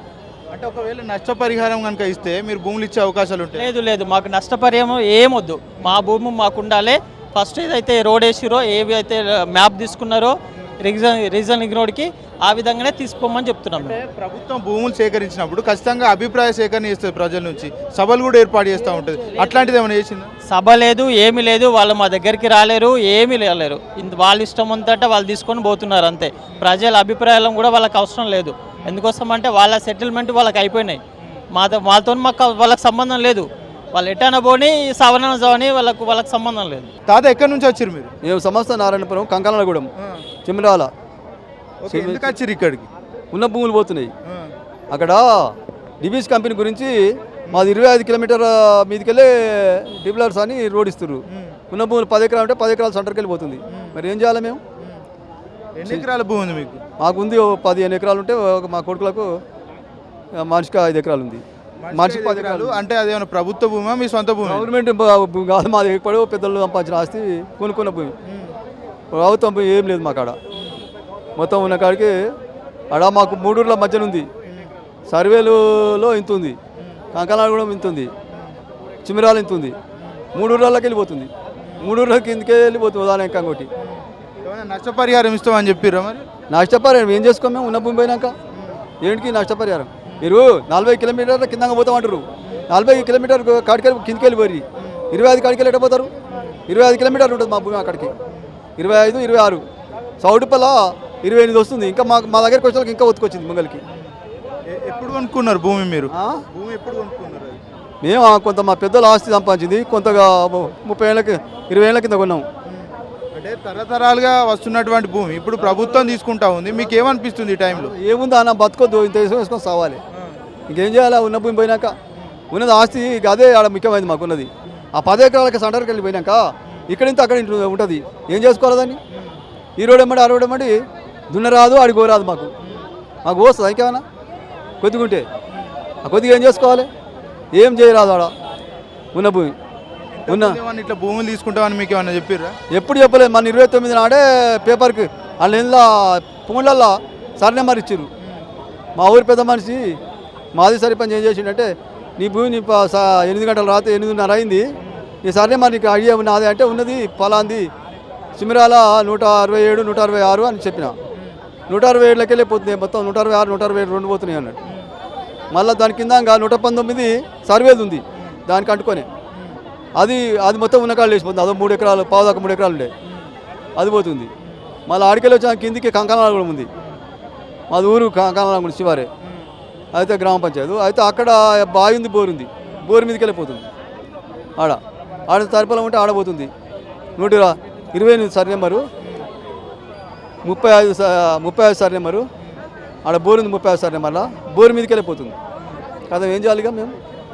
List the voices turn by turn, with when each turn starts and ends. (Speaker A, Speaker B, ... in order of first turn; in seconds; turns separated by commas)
Speaker A: 0.5-3.6, Speaker B: 3.6-14.0, Speaker A: 13.8-20.3, Speaker B: 20.5-31.0, Speaker B: 31.5-36.9, Speaker A: 37.1-38.1, Speaker C: 38.2-39.9, Speaker C: 40.5-40.9, Speaker A: 41.9-42.9, Speaker C: 41.9-42.3, Speaker C: 43.3-44.1, Speaker C: 44.9-47.0, Speaker C: 47.5-54.6, Speaker A: 53.7-54.0, Speaker A: 55.8-56.8, Speaker C: 57.0-59.3, Speaker C: 60.4-62.8, Speaker A: 61.8-64.7, Speaker C: 64.4-68.1, Speaker A: 68.3-68.5, Speaker C: 69.1-70.4, Speaker C: 71.4-72.2, Speaker C: 72.9-74.3, Speaker C: 75.1-76.6, Speaker C: 77.1-78.1, Speaker C: 79.0-79.8, Speaker C: 80.3-81.3, Speaker C: 81.8-83.7, Speaker A: 84.4-86.2, Speaker C: 86.5-88.3, Speaker C: 89.0-96.1, Speaker C: 96.7-98.1, Speaker C: 98.8-99.6, Speaker C: 100.2-103.8, Speaker A: 104.7-107.6, Speaker C: 106.1-106.4, Speaker C: 108.0-112.5, Speaker A: 112.8-117.9, Speaker C: 115.6-116.1, Speaker C: 117.7-120.0, Speaker C: 120.7-122.0, Speaker C: 122.5-129.0, Speaker C: 129.8-130.7, Speaker C: 131.3-132.5, Speaker C: 133.2-134.0, Speaker C: 134.8-135.2, Speaker C: 136.0-136.9, Speaker C: 137.5-138.3, Speaker C: 139.1-139.5, Speaker A: 140.2-142.5, Speaker C: 140.3-140.6, Speaker C: 142.7-148.1, Speaker C: 149.0-150.0, Speaker C: 150.6-154.7, Speaker C: 155.2-157.7, Speaker C: 158.4-160.9, Speaker C: 161.7-164.6, Speaker C: 165.5-169.1, Speaker C: 170.0-172.9, Speaker C: 173.8-174.3, Speaker C: 174.9-176.7, Speaker C: 177.7-179.1, Speaker C: 179.9-183.7, Speaker C: 184.6-186.5, Speaker C: 187.2-188.8, Speaker C: 190.4-192.3, Speaker C: 193.1-195.3, Speaker C: 196.1-197.0